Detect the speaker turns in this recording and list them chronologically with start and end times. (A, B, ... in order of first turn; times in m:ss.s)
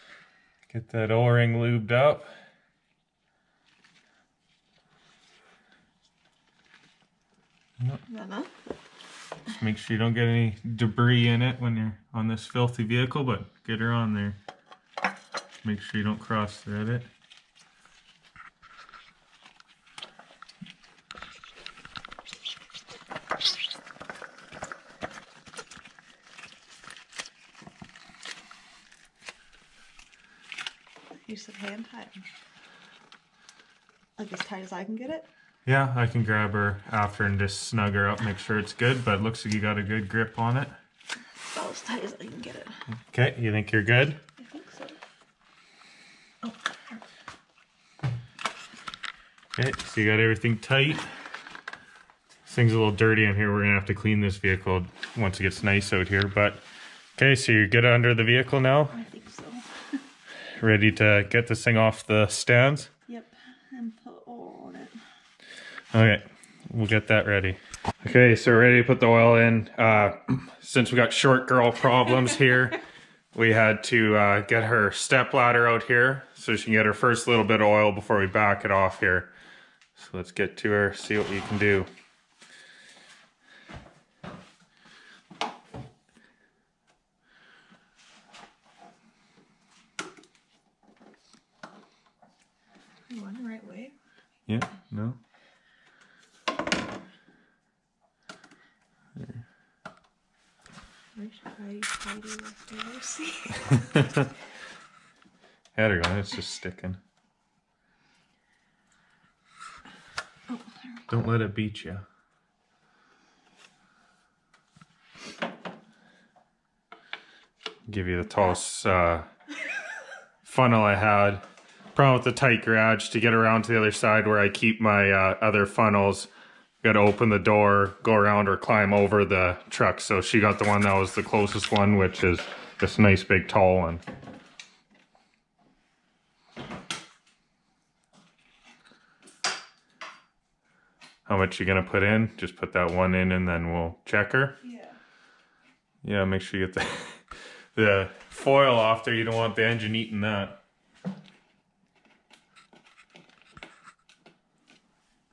0:00.7-0:02.3 A
0:08.1-0:08.5 B
0:09.5-0:14.4 A
0:15.6-0:17.1 A
0:31.2-0:32.3 B
0:34.2-0:35.3 B
0:35.6-0:40.8 A
0:41.4-0:42.7 B
0:43.1-0:44.2 A
0:44.4-0:45.0 B
0:46.4-0:47.0 B
0:49.6-0:51.0 A
0:52.5-0:56.6 A
0:57.2-0:59.0 A
0:58.9-0:59.7 B
1:00.6-1:02.9 A
1:03.1-1:05.0 B
1:05.9-1:12.8 A
1:13.3-1:19.3 A
1:20.0-1:21.9 A
1:33.1-1:33.9 B
1:34.5-1:35.2 A
1:39.2-1:39.4 A
1:41.2-1:43.8 B
1:43.8-1:44.3 A
1:45.8-1:47.0 A
1:50.5-1:51.1 B
1:51.1-1:52.0 A
1:57.9-1:59.3 A
2:00.4-2:01.4 A
2:01.9-2:06.3 A
2:06.8-2:14.0 A
2:21.3-2:24.6 A
2:24.6-2:25.0 B
2:26.0-2:30.6 A